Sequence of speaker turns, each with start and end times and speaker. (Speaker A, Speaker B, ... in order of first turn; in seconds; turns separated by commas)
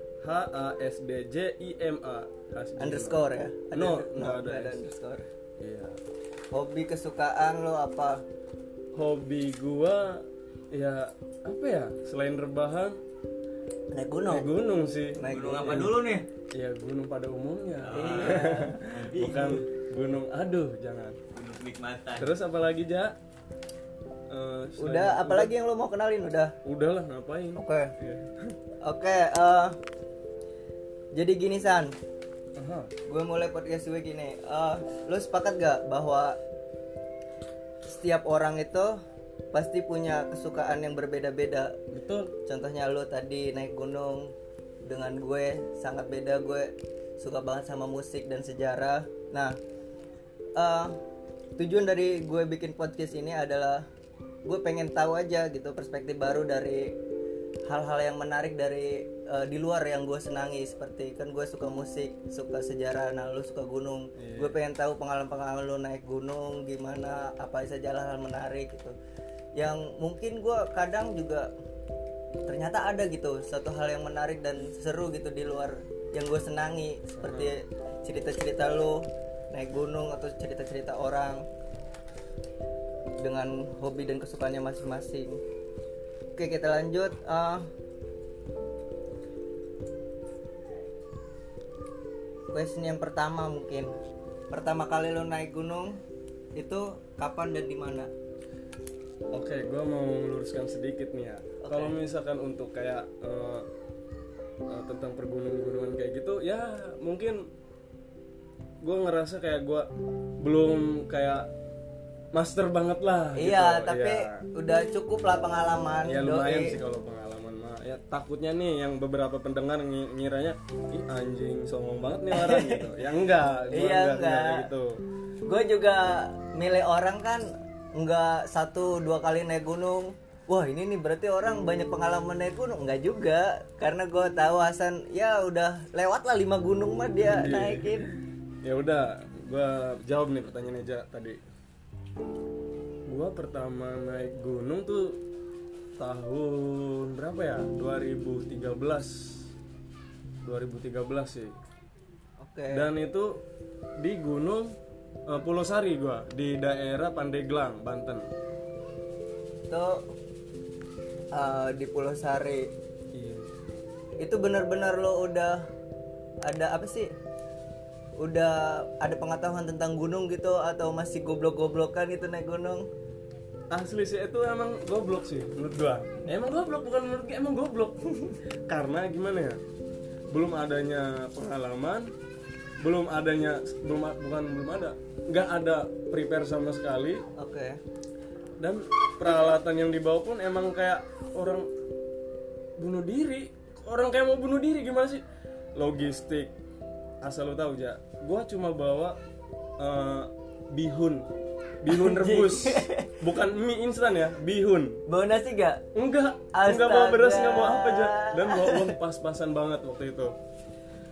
Speaker A: 0.2-3.2, Speaker B: 2.8-5.3, Speaker A: 3.7-4.8, Speaker A: 5.6-6.0, Speaker B: 6.5-8.2, Speaker A: 8.9-13.0, Speaker B: 13.9-14.5, Speaker A: 14.3-16.0, Speaker B: 15.2-16.1, Speaker C: 15.3-16.2, Speaker A: 16.5-21.2, Speaker C: 17.8-19.4, Speaker B: 17.9-19.6, Speaker C: 21.3-22.3, Speaker A: 22.2-23.1, Speaker A: 24.3-25.5, Speaker B: 24.8-26.5, Speaker A: 26.6-28.5, Speaker B: 27.6-27.9, Speaker B: 28.8-29.8, Speaker B: 31.1-31.9, Speaker A: 32.5-32.9, Speaker B: 33.1-36.4, Speaker B: 37.9-39.0, Speaker B: 39.5-41.8, Speaker A: 41.9-42.3, Speaker B: 42.4-44.3, Speaker B: 44.8-49.5, Speaker B: 50.6-51.0, Speaker B: 51.6-53.9, Speaker B: 54.4-56.9, Speaker B: 57.7-68.9, Speaker A: 64.2-64.6, Speaker B: 69.6-71.5, Speaker B: 72.5-81.4, Speaker A: 77.2-77.5, Speaker B: 83.2-85.4, Speaker B: 86.3-87.7, Speaker B: 92.5-93.9, Speaker B: 94.5-96.0, Speaker B: 96.5-98.1, Speaker A: 99.3-103.7, Speaker B: 101.6-102.0, Speaker A: 104.7-107.4, Speaker A: 108.8-109.9, Speaker A: 110.4-111.5, Speaker A: 112.3-114.4, Speaker B: 113.3-116.7, Speaker A: 116.0-125.0, Speaker B: 122.3-122.9, Speaker B: 123.7-124.7, Speaker B: 125.5-138.1, Speaker A: 137.2-141.4, Speaker A: 143.1-145.2, Speaker A: 146.0-149.5, Speaker A: 150.4-151.5, Speaker B: 152.4-152.9, Speaker A: 152.7-153.3, Speaker A: 154.0-154.7, Speaker A: 155.3-158.3, Speaker B: 159.7-160.0, Speaker B: 161.3-162.7, Speaker A: 163.1-163.5, Speaker B: 164.2-165.6, Speaker B: 166.4-167.1, Speaker B: 168.2-172.8, Speaker A: 173.7-178.0, Speaker A: 178.7-179.6, Speaker A: 180.3-182.1, Speaker A: 182.8-187.2, Speaker B: 187.4-187.8, Speaker A: 188.6-191.7, Speaker B: 189.3-189.5, Speaker A: 192.8-195.2, Speaker A: 195.8-196.5, Speaker A: 197.2-199.2, Speaker A: 199.8-201.2, Speaker A: 201.8-205.0, Speaker B: 201.9-203.2, Speaker B: 205.1-205.8, Speaker A: 205.9-210.3, Speaker B: 206.5-208.9